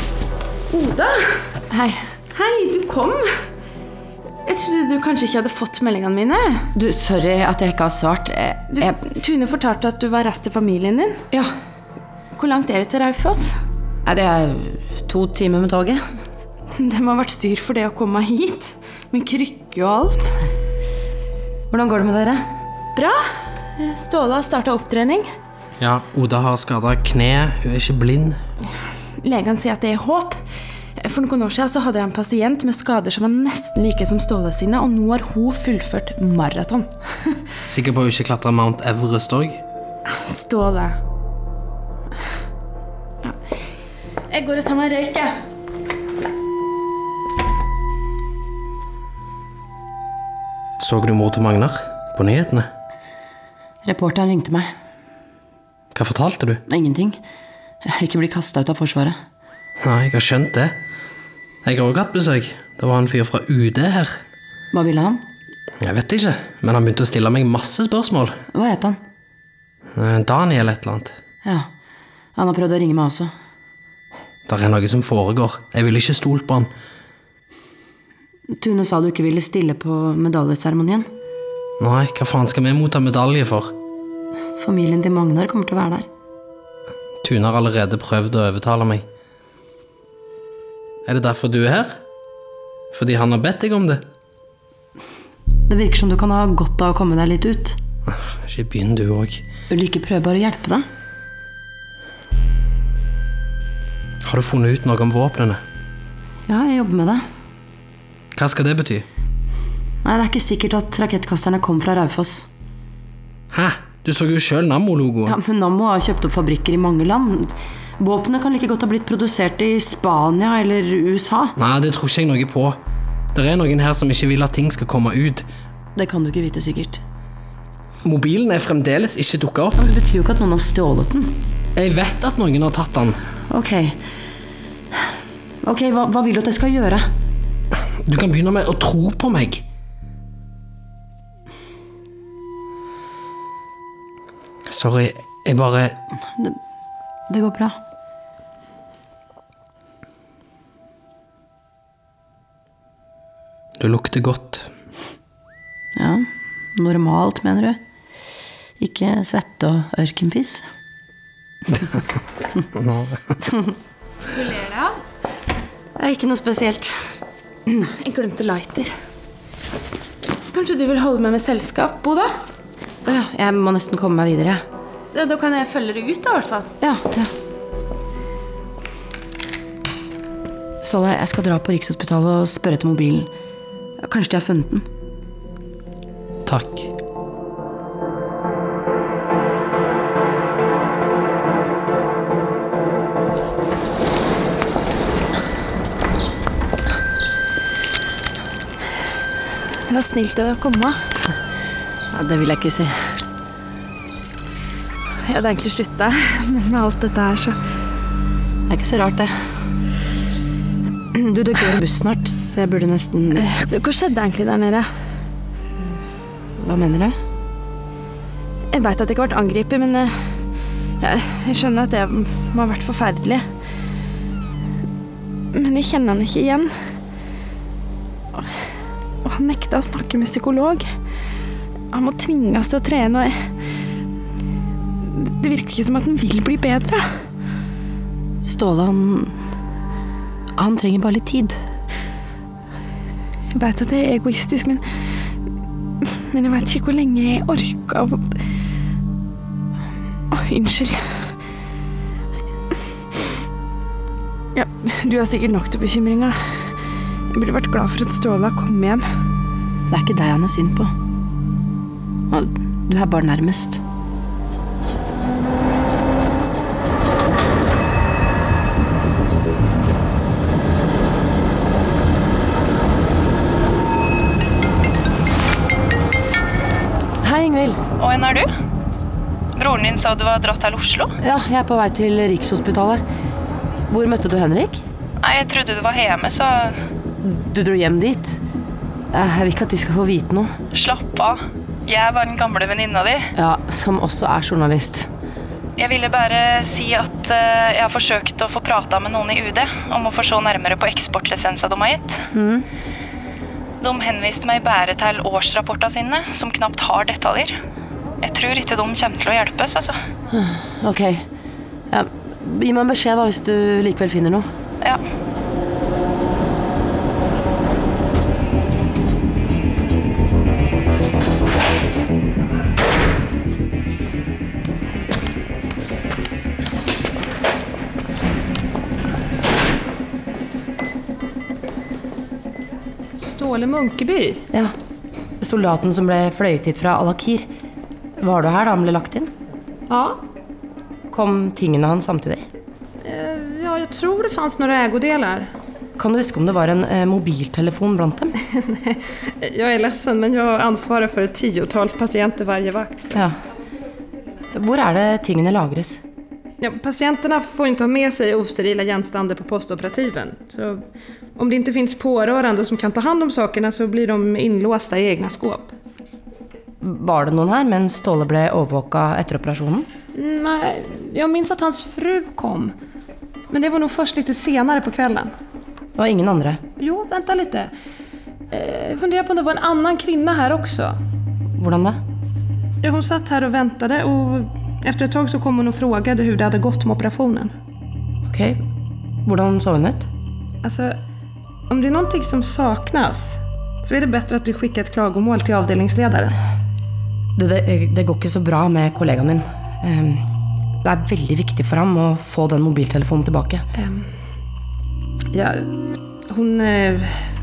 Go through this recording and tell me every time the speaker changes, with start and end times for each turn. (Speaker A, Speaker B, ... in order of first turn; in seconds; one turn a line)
Speaker A: 0.7-3.3
Speaker A: 4.5-6.7
Speaker B: 6.8-9.0
Speaker A: 8.7-11.5
Speaker A: 12.3-13.6
Speaker B: 14.1-16.0
Speaker A: 16.8-20.3
Speaker B: 21.7-22.4
Speaker A: 23.0-23.2
Speaker A: 23.8-25.3
Speaker C: 25.8-28.4
Speaker A: 29.2-30.4
Speaker A: 31.0-36.9
Speaker C: 37.7-39.6
Speaker A: 40.1-41.0
Speaker A: 44.3-45.4
Speaker C: 50.8-52.7
Speaker B: 53.8-54.7
Speaker C: 55.9-56.6
Speaker B: 56.7-57.2
Speaker B: 57.8-59.2
Speaker C: 59.8-60.8
Speaker C: 61.6-64.2
Speaker B: 64.7-65.2
Speaker C: 65.8-68.4
Speaker B: 68.5-69.0
Speaker C: 70.0-71.2
Speaker B: 72.4-73.3
Speaker C: 74.5-76.7
Speaker B: 78.5-81.1
Speaker C: 81.8-83.7
Speaker B: 84.6-86.1
Speaker C: 87.2-89.0
Speaker C: 91.0-92.0
Speaker C: 92.9-94.0
Speaker B: 95.7-97.8
Speaker C: 98.1-99.5
Speaker B: 99.7-100.9
Speaker C: 104.2-105.6
Speaker B: 106.5-107.2
Speaker C: 108.3-109.1
Speaker B: 110.0-112.5
Speaker C: 113.5-115.4
Speaker B: 115.3-121.5
Speaker C: 121.6-122.8
Speaker C: 123.3-125.5
Speaker B: 126.0-127.0
Speaker C: 128.0-129.8
Speaker B: 129.8-131.4
Speaker C: 131.8-133.2
Speaker B: 133.5-134.0
Speaker B: 135.6-137.1
Speaker C: 138.1-139.6
Speaker C: 144.7-146.0
Speaker B: 147.3-147.8
Speaker C: 153.8-154.7
Speaker B: 156.0-157.8
Speaker B: 158.8-160.6
Speaker C: 162.8-163.2
Speaker B: 163.4-163.7
Speaker A: 164.3-164.9
Speaker B: 166.0-166.9
Speaker A: 167.8-168.9
Speaker A: 170.5-172.3
Speaker B: 173.1-174.6
Speaker A: 175.1-176.7
Speaker B: 176.8-177.3
Speaker B: 180.8-183.3
Speaker B: 184.0-184.9
Speaker C: 186.5-186.9
Speaker A: 199.9-201.0
Speaker B: 202.1-203.1
Speaker A: 205.2-207.6
Speaker B: 208.7-209.4
Speaker B: 211.1-213.5
Speaker A: 213.3-214.9
Speaker B: 216.6-217.2
Speaker A: 218.7-220.3
Speaker A: 221.0-223.4
Speaker A: 225.5-227.0
Speaker A: 229.2-230.9
Speaker A: 231.9-233.5
Speaker A: 235.1-237.2
Speaker B: 238.4-239.3
Speaker B: 240.6-241.6
Speaker A: 243.5-244.8
Speaker A: 246.2-248.3
Speaker A: 250.3-251.3
Speaker A: 254.6-256.7
Speaker A: 257.3-259.1
Speaker B: 259.9-260.9
Speaker B: 262.3-263.8
Speaker B: 277.2-277.8
Speaker D: 278.0-278.5
Speaker D: 279.6-281.1
Speaker B: 281.2-283.0
Speaker B: 283.9-284.8
Speaker D: 285.2-286.8
Speaker B: 287.2-288.4
Speaker B: 289.1-290.5
Speaker D: 290.7-293.3
Speaker B: 293.4-295.1
Speaker D: 295.8-302.2
Speaker B: 302.3-302.7
Speaker D: 303.8-307.6
Speaker D: 308.2-310.0
Speaker B: 310.3-311.2
Speaker B: 311.9-314.5
Speaker E: 333.2-334.4
Speaker B: 335.4-337.5
Speaker B: 338.2-339.3
Speaker E: 339.9-340.2
Speaker B: 341.1-342.4
Speaker E: 343.0-345.5
Speaker B: 346.0-348.3
Speaker E: 348.5-353.1
Speaker B: 354.5-356.0
Speaker E: 356.6-360.8
Speaker E: 361.4-365.7
Speaker B: 366.8-369.9
Speaker E: 370.1-372.7
Speaker E: 373.5-375.3
Speaker B: 376.0-376.6
Speaker E: 376.8-377.7
Speaker E: 378.5-381.0
Speaker B: 381.6-382.0
Speaker E: 382.8-387.5
Speaker B: 388.3-388.6
Speaker B: 389.3-390.1
Speaker E: 390.6-391.0
Speaker E: 391.7-396.4
Speaker B: 397.4-400.2
Speaker B: 400.8-403.6
Speaker E: 403.8-404.1
Speaker E: 405.3-405.7
Speaker E: 406.3-407.2